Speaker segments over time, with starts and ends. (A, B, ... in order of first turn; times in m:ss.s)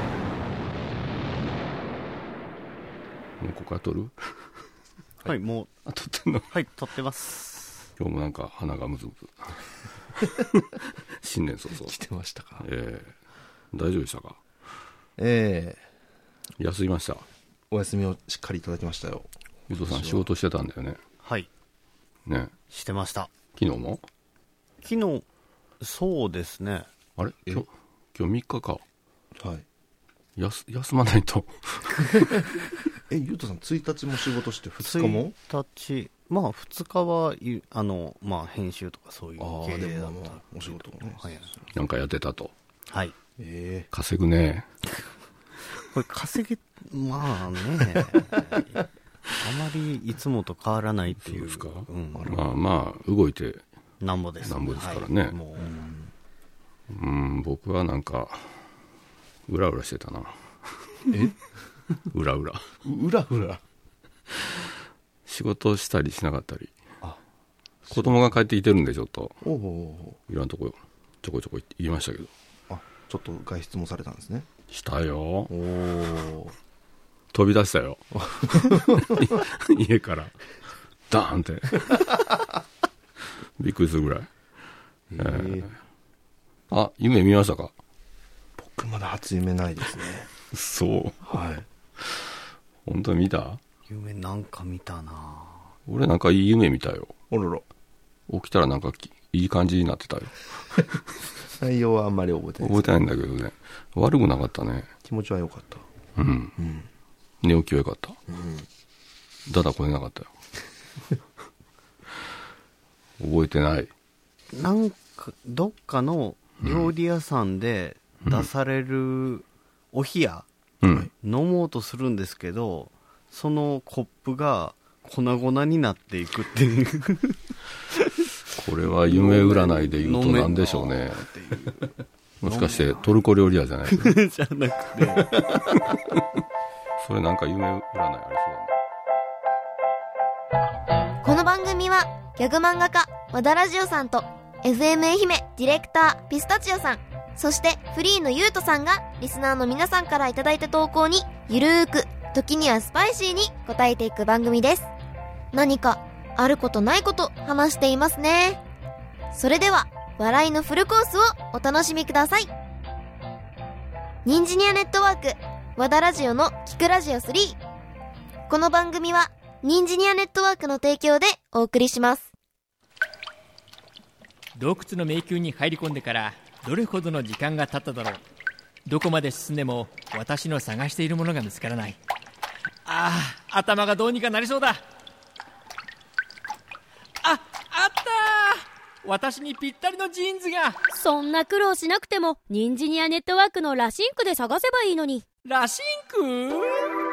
0:03.4-0:04.1 A
0:05.2-0:05.7 B
0:05.8-0:06.5 A
0:06.5-0:07.9 B
0:08.0-0:09.5 A
0:11.2-0:12.0 A
0:11.7-0:12.6 C
0:12.6-0:13.1 A
0:13.7-0:14.4 A
0:15.2-0:15.8 C
0:16.6-0:17.2 A
0:17.7-0:20.3 C
0:19.7-0:21.0 A
0:21.2-0:21.5 B
0:22.2-0:22.5 A
0:22.7-0:23.3 B
0:23.6-0:24.0 A
0:24.8-0:25.2 B
0:25.8-0:26.9 B
0:27.2-0:28.8 A
0:29.4-0:29.6 C
0:30.4-0:32.4 A
0:33.1-0:35.3 C
0:34.8-0:41.5 B
0:39.4-0:41.5 C
0:41.7-0:42.5 A
0:42.9-0:43.1 B
0:43.4-0:43.9 C
0:43.9-0:44.6 A
0:45.9-0:48.8 B
0:49.3-0:52.4 B
0:51.2-0:53.6 A
0:54.0-0:55.8 B
0:54.4-0:55.4 A
0:55.6-0:56.1 C
0:56.9-0:58.5 A
0:59.5-1:00.4 A
1:01.1-1:01.4 C
1:02.1-1:02.7 A
1:02.8-1:03.6 C
1:05.3-1:06.7 A
1:07.8-1:08.3 C
1:07.9-1:09.4 A
1:09.4-1:10.2 C
1:10.3-1:12.3 A
1:12.7-1:14.5 C
1:14.7-1:15.5 A
1:15.5-1:16.5 C
1:17.3-1:20.4 A
1:18.2-1:19.3 C
1:21.1-1:22.1 A
1:23.6-1:24.3 A
1:25.1-1:25.7 C
1:25.2-1:25.7 A
1:26.7-1:27.7 A
1:28.6-1:30.3 C
1:30.5-1:31.4 A
1:31.2-1:31.6 C
1:32.8-1:33.6 A
1:33.9-1:35.7 B
1:35.9-1:37.1 A
1:37.3-1:37.6 C
1:38.3-1:40.4 A
1:41.4-1:42.9 C
1:42.6-1:44.9 A
1:45.0-1:45.9 C
1:46.2-1:46.6 A
1:46.6-1:46.9 C
1:47.4-1:48.2 A
1:48.3-1:48.7 C
1:49.5-1:50.3 A
1:53.2-1:53.9 A
1:54.5-2:00.5 B
1:56.6-1:56.9 A
2:00.8-2:01.1 A
2:01.2-2:07.4 B
2:08.5-2:11.2 A
2:09.0-2:13.0 B
2:12.4-2:14.1 A
2:13.9-2:15.7 B
2:17.0-2:18.7 A
2:21.2-2:34.9 D
2:35.5-2:38.6 D
2:39.3-2:42.5 D
2:44.2-2:47.6 D
2:48.5-2:52.3 D
2:54.5-2:58.2 E
2:58.8-3:02.0 E
3:02.8-3:04.8 E
3:07.2-3:10.8 E
3:10.9-3:15.2 F
3:15.4-3:16.9 E